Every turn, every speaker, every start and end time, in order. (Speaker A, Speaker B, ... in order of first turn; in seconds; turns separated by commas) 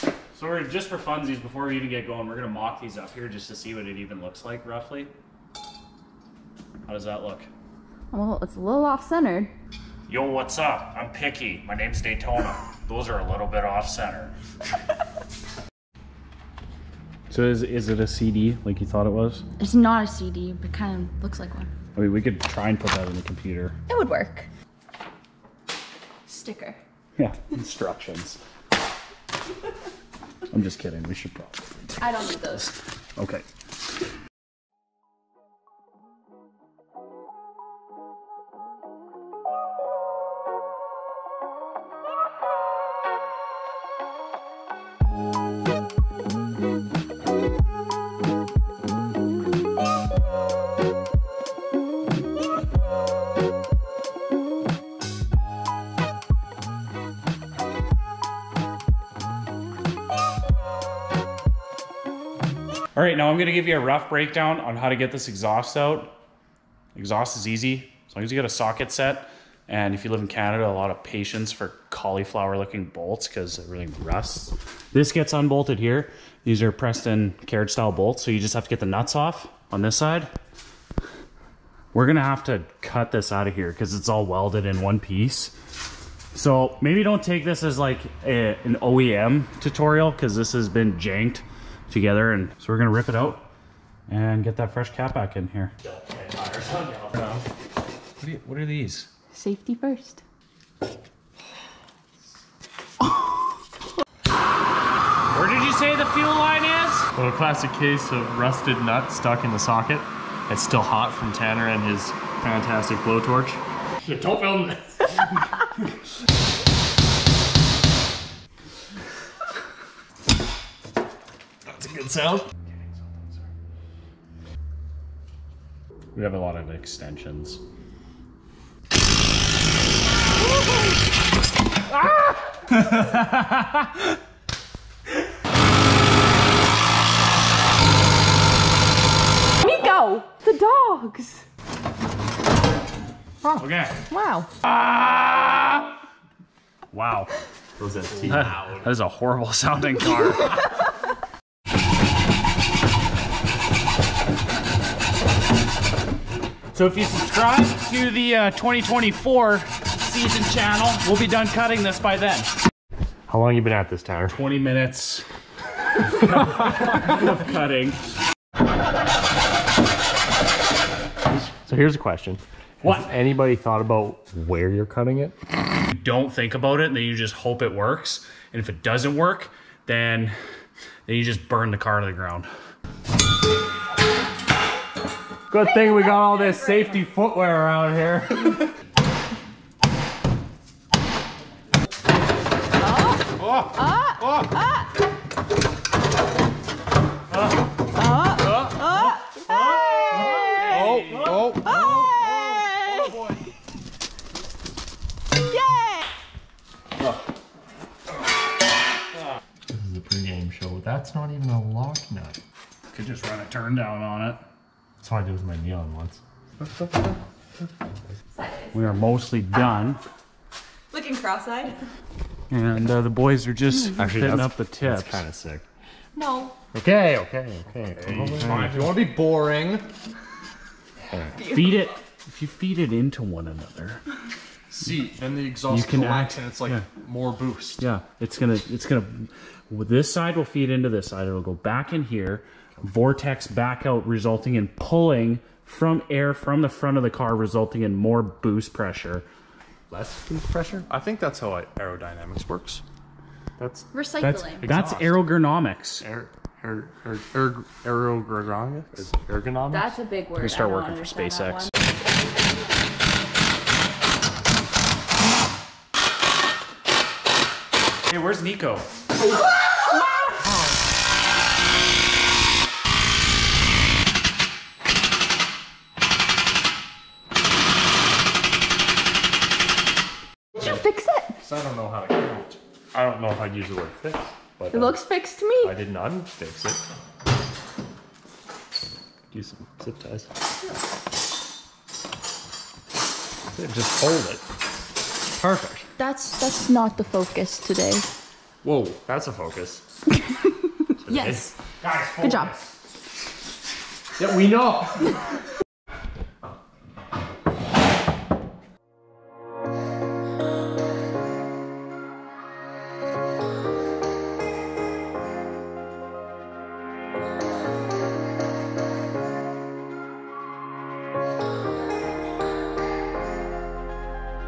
Speaker A: 0.3-5.1, Speaker A: 6.9-7.5, Speaker B: 8.1-9.5, Speaker A: 10.1-14.3, Speaker A: 17.3-19.4, Speaker B: 19.6-21.7, Speaker A: 21.9-23.8, Speaker B: 23.9-24.5, Speaker B: 26.3-26.8, Speaker A: 27.2-28.4, Speaker A: 30.5-32.0, Speaker B: 32.0-32.7, Speaker A: 32.5-33.5, Speaker A: 63.0-66.1, Speaker A: 67.0-80.3, Speaker A: 81.9-85.5, Speaker A: 86.3-93.5, Speaker A: 94.1-95.7, Speaker C: 95.8-97.4, Speaker A: 98.2-99.1, Speaker B: 99.3-100.2, Speaker A: 105.3-107.1, Speaker C: 107.2-115.0, Speaker C: 121.7-123.4, Speaker A: 126.2-127.6, Speaker B: 130.5-130.9, Speaker A: 132.7-133.9, Speaker B: 139.6-141.4, Speaker A: 143.6-144.0, Speaker B: 144.1-144.5, Speaker A: 146.9-147.3, Speaker C: 147.8-148.6, Speaker A: 148.3-150.5, Speaker A: 156.7-162.5, Speaker C: 163.3-164.4, Speaker A: 164.3-165.3, Speaker A: 166.1-168.0, Speaker C: 171.3-175.3, Speaker A: 172.8-173.1, Speaker A: 175.9-180.3, Speaker A: 181.1-182.5, Speaker C: 185.5-188.6, Speaker B: 185.8-187.0, Speaker B: 192.8-194.9, Speaker B: 197.9-203.2, Speaker A: 200.2-201.5, Speaker D: 200.8-201.6, Speaker C: 201.3-201.6, Speaker B: 205.5-206.0, Speaker C: 209.7-212.4, Speaker A: 212.9-214.4, Speaker C: 215.0-217.1, Speaker B: 218.4-218.8, Speaker A: 218.7-220.0, Speaker B: 220.9-221.9, Speaker A: 222.5-225.2, Speaker C: 223.9-225.6, Speaker B: 226.2-226.6, Speaker C: 226.7-229.8, Speaker D: 228.1-229.7, Speaker A: 228.3-228.8, Speaker C: 231.1-231.4, Speaker B: 231.4-231.8, Speaker A: 231.4-234.0, Speaker D: 234.7-237.8, Speaker A: 235.7-236.9, Speaker A: 237.8-249.3, Speaker C: 249.9-252.8, Speaker C: 253.6-253.9, Speaker B: 253.9-254.7, Speaker A: 254.2-256.0, Speaker C: 254.4-254.9, Speaker C: 256.0-259.9, Speaker B: 259.7-261.7, Speaker A: 260.4-261.7, Speaker A: 268.1-268.9, Speaker B: 280.6-281.4, Speaker C: 281.4-285.0, Speaker B: 284.7-285.7, Speaker C: 285.6-286.8, Speaker C: 289.3-290.3, Speaker C: 293.5-294.4, Speaker C: 295.3-295.9, Speaker B: 296.0-298.1, Speaker C: 298.6-299.8, Speaker B: 301.0-301.6, Speaker C: 301.0-301.5, Speaker A: 301.8-302.7, Speaker B: 302.2-302.5, Speaker C: 304.2-305.1